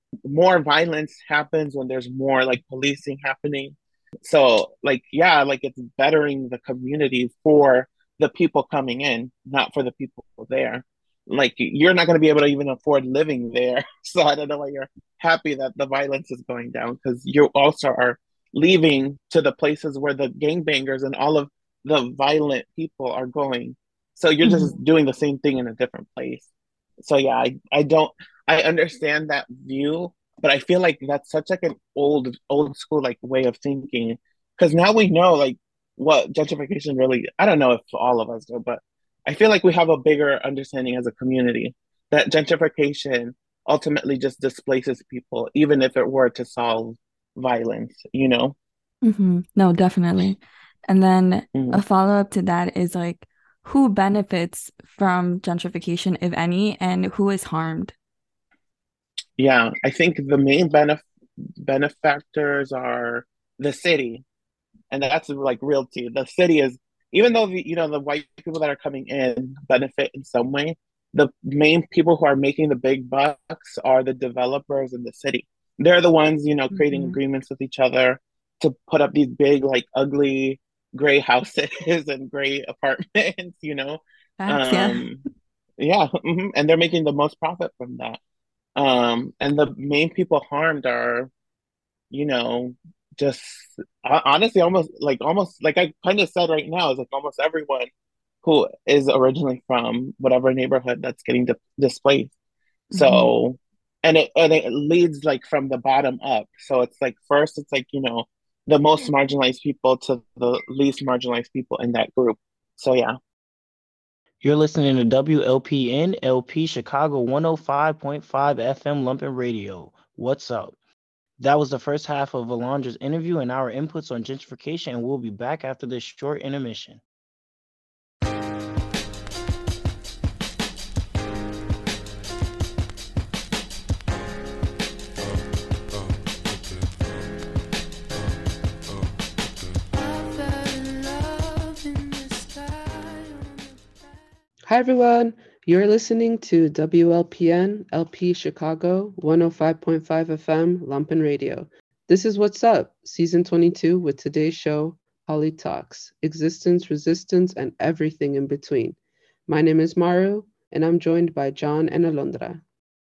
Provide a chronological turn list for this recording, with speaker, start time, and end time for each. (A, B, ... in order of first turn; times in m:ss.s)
0:00.2-0:26.5 A
0:24.4-0:24.8 B
0:27.0-0:48.6 A
0:49.0-0:58.0 B
0:51.5-0:51.8 A
0:59.4-1:01.0 A
1:01.6-1:04.2 A
1:04.9-1:25.2 A
1:16.7-1:17.2 B
1:24.4-1:25.1 B
1:25.8-1:28.2 A
1:28.8-1:31.3 A
1:32.1-1:37.9 A
1:38.4-1:42.3 A
1:42.9-1:43.3 B
1:42.9-1:53.2 A
1:54.4-2:00.8 C
2:01.4-2:07.0 C
2:24.7-2:42.6 D